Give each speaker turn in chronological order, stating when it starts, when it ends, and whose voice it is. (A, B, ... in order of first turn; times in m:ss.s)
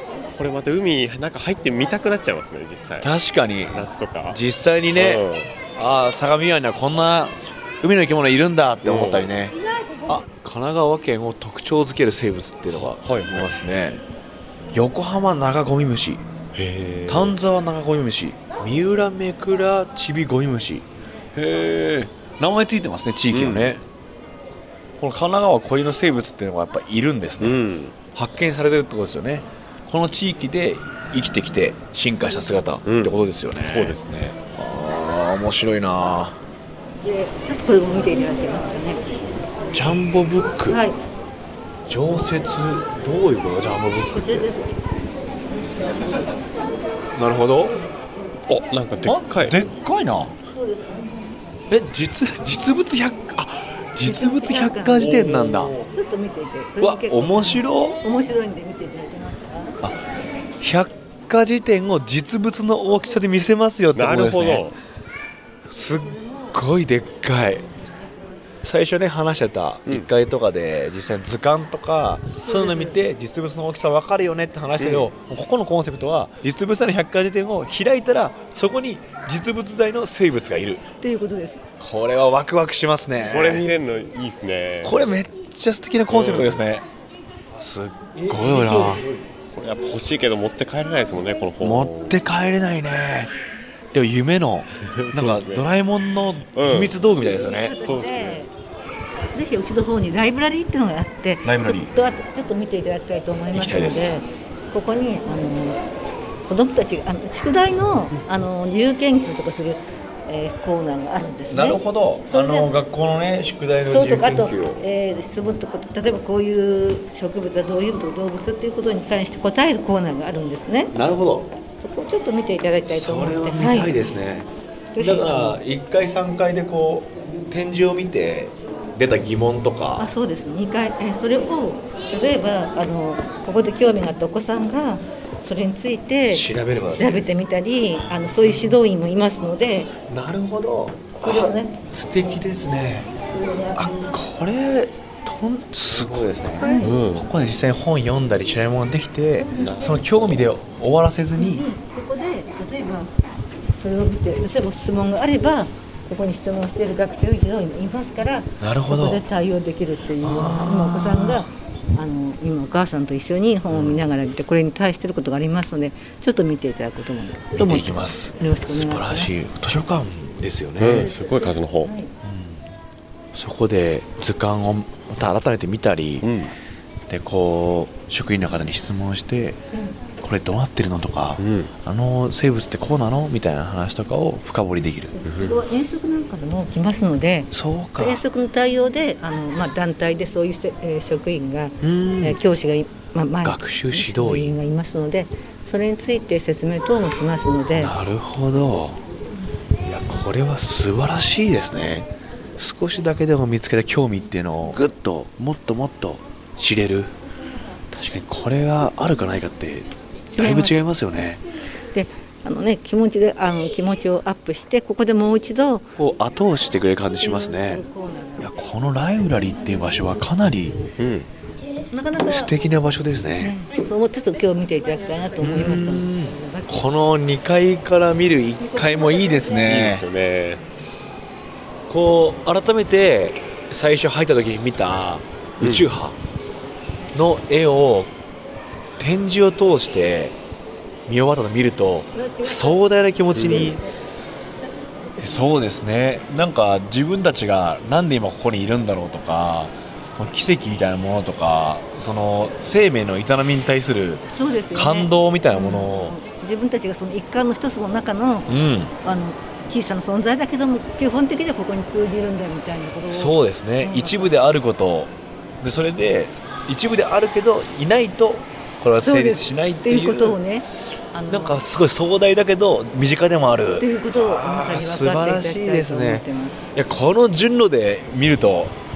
0:00.3-0:03.1 A
0:03.0-0:09.6 B
0:03.6-0:04.4 A
0:05.0-0:05.5 A
0:08.8-0:09.3 A
0:10.1-0:14.0 B
0:12.7-0:13.6 A
0:14.7-0:16.2 B
0:16.5-0:17.4 A
0:17.1-0:23.8 B
0:23.3-0:23.7 A
0:25.0-0:27.6 B
0:27.4-0:28.0 A
0:28.1-0:34.0 B
0:32.8-0:34.4 A
0:34.5-0:36.4 B
0:37.0-0:39.1 C
0:39.7-0:40.8 B
0:40.7-0:41.0 C
0:41.9-0:44.5 B
0:44.1-0:44.7 C
0:47.1-0:47.8 B
0:48.5-0:49.6 A
0:49.0-0:50.3 B
0:51.7-0:55.7 B
0:54.0-0:59.8 C
0:56.8-0:58.0 B
1:00.6-1:04.6 B
1:04.0-1:04.8 A
1:05.6-1:07.6 B
1:08.6-1:20.8 B
1:12.4-1:13.0 C
1:14.8-1:15.1 A
1:21.0-1:21.6 C
1:21.8-1:23.6 B
1:23.2-1:25.1 A
1:24.8-1:26.8 B
1:26.1-1:26.6 A
1:27.6-1:29.0 B
1:29.5-1:32.2 A
1:31.6-1:33.3 B
1:33.9-1:37.7 B
1:34.8-1:35.7 A
1:36.5-1:36.9 A
1:37.3-1:38.5 C
1:37.8-1:38.4 A
1:39.3-1:45.8 C
1:41.4-1:42.0 B
1:43.5-1:44.2 B
1:46.4-1:52.7 C
1:51.5-1:54.8 B
1:53.8-2:00.9 C
2:00.9-2:01.5 B
2:01.8-2:04.0 C
2:02.8-2:10.1 B
2:04.9-2:05.6 C
2:10.0-2:19.9 C
2:16.3-2:17.3 B
2:20.1-2:23.1 B
2:21.2-2:21.8 C
2:23.3-2:24.0 C
2:23.7-2:31.7 B
2:26.5-2:27.0 C
2:26.8-2:27.3 A
2:29.6-2:30.4 A
2:31.4-2:33.1 C
2:33.8-2:49.3 C
2:38.6-2:39.2 B
2:40.2-2:41.5 B
2:43.7-2:44.0 A
2:47.6-2:51.1 B
2:50.8-2:51.9 A
2:51.8-2:52.1 C
2:52.2-2:52.6 B
2:53.3-2:56.3 B
2:56.2-2:56.6 A
2:57.1-2:59.6 B
3:00.2-3:05.1 B
3:01.4-3:01.7 A
3:05.2-3:17.9 C
3:05.2-3:05.6 A
3:07.5-3:08.2 B
3:11.8-3:12.4 B
3:13.4-3:14.6 B
3:17.7-3:19.0 B
3:19.8-3:27.1 B
3:27.9-3:31.4 B
3:30.4-3:30.8 C
3:31.9-3:35.9 C
3:36.0-3:37.8 B
3:37.2-3:38.5 C
3:38.4-3:40.8 B
3:41.0-3:41.3 A
3:41.9-3:42.5 C
3:42.2-3:43.6 B
3:43.4-3:46.9 C
3:45.4-3:50.0 B
3:49.6-3:50.6 A
3:51.9-3:56.2 B
3:55.6-3:55.9 A
3:57.1-3:58.1 B
3:59.0-4:00.3 B
4:01.1-4:03.8 B
4:02.2-4:02.5 C
4:03.4-4:03.7 A
4:05.2-4:16.2 B
4:14.3-4:24.3 C
4:18.5-4:18.9 B
4:23.1-4:30.4 B
4:29.0-4:31.6 C
4:31.3-4:38.7 B
4:33.8-4:36.6 C